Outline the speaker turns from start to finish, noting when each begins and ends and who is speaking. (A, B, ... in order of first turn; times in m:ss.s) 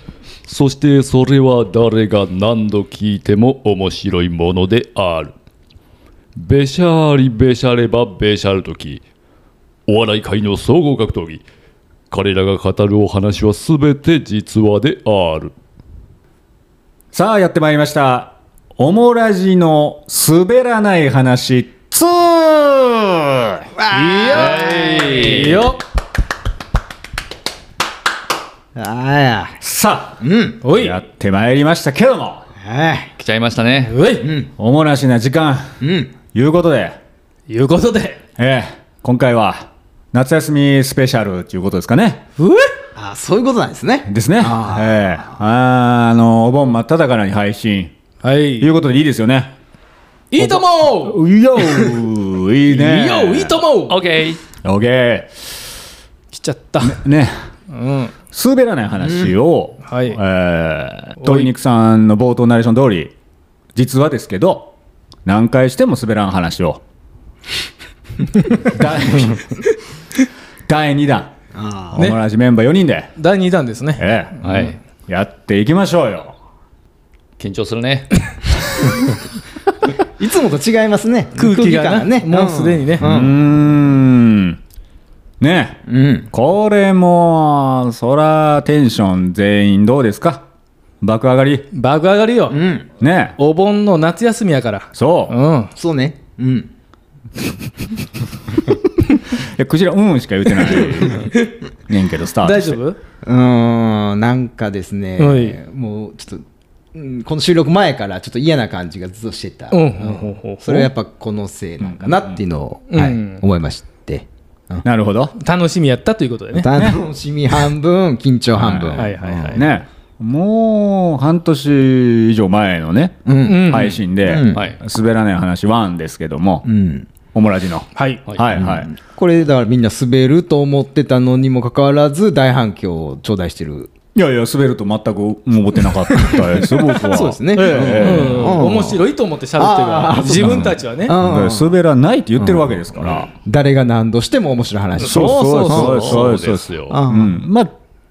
0:00.5-0:05.3 A
0:06.4-0:09.0 A
0:09.9-0:11.4 A
0:12.1-0:15.5 A
0:17.1-0:23.6 B
0:23.8-0:25.4 C
0:23.9-0:25.8 D
0:24.3-0:25.7 A
0:28.8-0:29.6 C
0:29.6-0:32.4 B
0:30.2-0:30.6 C
0:30.6-0:31.0 D
0:32.6-0:33.1 C
0:33.2-0:34.0 A
0:33.9-0:34.3 D
0:34.2-0:34.5 C
0:34.6-0:35.8 B
0:35.8-0:36.1 C
0:36.3-0:37.0 B
0:37.5-0:38.2 D
0:38.4-0:42.2 B
0:42.4-0:42.7 D
0:43.0-0:45.0 C
0:44.1-0:47.9 B
0:48.2-0:48.7 D
0:48.6-0:49.5 B
0:50.3-0:51.9 D
0:50.4-0:53.6 B
0:52.7-0:54.0 D
0:53.9-0:54.4 A
0:54.6-0:55.5 B
0:56.3-0:57.0 D
0:56.8-0:57.4 B
0:57.7-0:58.1 D
0:58.3-1:03.1 B
0:59.9-1:00.2 D
1:01.2-1:01.5 D
1:03.8-1:04.7 B
1:05.2-1:06.8 B
1:08.6-1:09.5 B
1:10.7-1:11.3 B
1:11.6-1:11.9 C
1:11.9-1:13.1 B
1:13.2-1:14.7 D
1:14.0-1:14.4 B
1:14.4-1:14.8 A
1:15.1-1:16.4 B
1:17.4-1:18.1 A
1:20.2-1:23.4 C
1:21.4-1:23.1 D
1:23.0-1:24.6 B
1:25.4-1:30.4 B
1:25.9-1:26.3 C
1:31.0-1:31.7 B
1:31.7-1:32.6 D
1:32.5-1:32.8 C
1:33.0-1:33.4 B
1:33.4-1:35.7 D
1:34.9-1:35.4 B
1:35.8-1:36.7 C
1:39.3-1:42.8 B
1:41.1-1:41.5 D
1:42.4-1:43.0 D
1:43.2-1:54.8 C
1:45.2-1:45.6 D
1:49.7-1:50.9 D
1:51.8-1:52.3 B
1:52.9-1:53.4 D
1:54.8-1:55.3 B
1:55.4-1:56.7 D
1:56.5-1:59.6 C
1:56.7-1:57.0 B
1:58.6-2:06.7 B
1:59.0-1:59.7 D
2:03.3-2:04.6 C
2:03.4-2:04.0 D
2:04.5-2:04.8 A
2:06.7-2:07.1 C
2:07.3-2:08.9 B
2:08.0-2:08.2 D
2:08.5-2:13.9 C
2:14.2-2:18.6 B
2:16.2-2:19.0 C
2:17.8-2:21.2 D
2:19.6-2:21.8 C
2:20.3-2:23.3 B
2:22.5-2:26.2 C
2:25.0-2:26.2 D
2:25.0-2:27.7 B
2:25.7-2:27.0 A
2:26.9-2:27.4 C